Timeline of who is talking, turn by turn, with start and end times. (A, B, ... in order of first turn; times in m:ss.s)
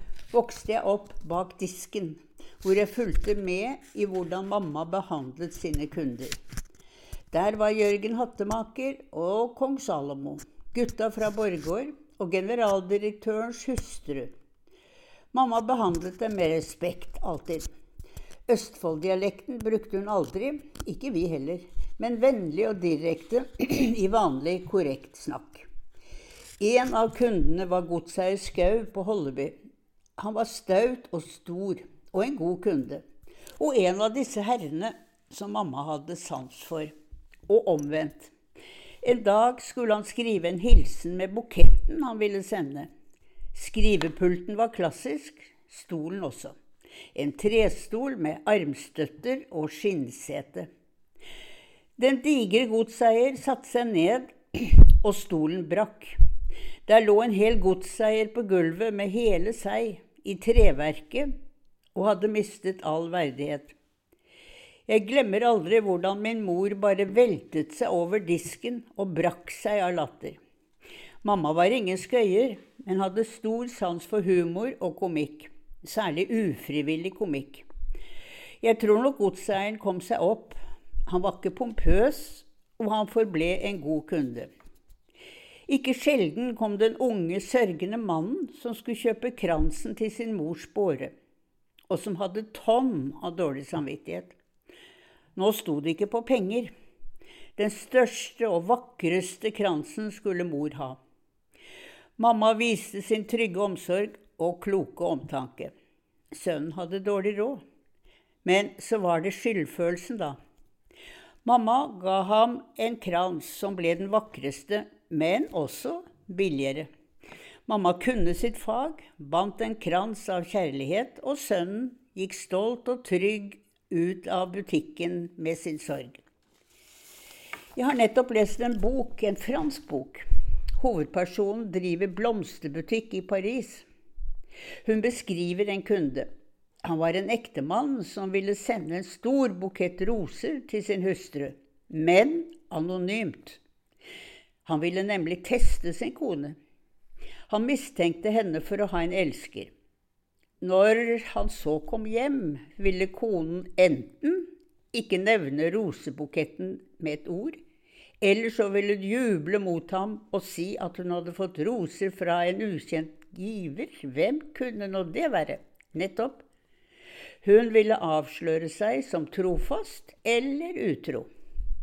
0:00.3-0:06.4 A
0:07.3-0:14.3 A
0:15.3-0:17.7 A
0:18.5-0:25.6 A
0:26.6-0:29.5 A
0:30.2-0:33.0 A
0:33.6-0:36.9 A
0:37.5-0:38.3 A
0:39.0-0:42.9 A
0:43.5-0:46.5 A
0:47.1-0:50.7 A
0:52.0-0:56.2 A
0:56.8-1:01.3 A
1:01.9-1:03.7 A
1:04.9-1:10.4 A
1:11.2-1:17.6 A
1:18.6-1:24.5 A
1:25.7-1:31.1 A
1:31.9-1:34.3 A
1:35.3-1:36.7 A
1:37.6-1:41.0 A
1:42.2-1:45.7 A
1:46.3-1:47.6 A
1:48.4-1:50.4 A
1:51.4-1:56.9 A
1:57.7-2:06.2 A
2:07.8-2:10.2 A
2:10.8-2:13.8 A
2:14.8-2:16.3 A
2:16.8-2:23.6 A
2:24.6-2:26.6 A
2:27.5-2:29.7 A
2:30.6-2:37.6 A
2:38.2-2:46.4 A
2:47.4-2:51.3 A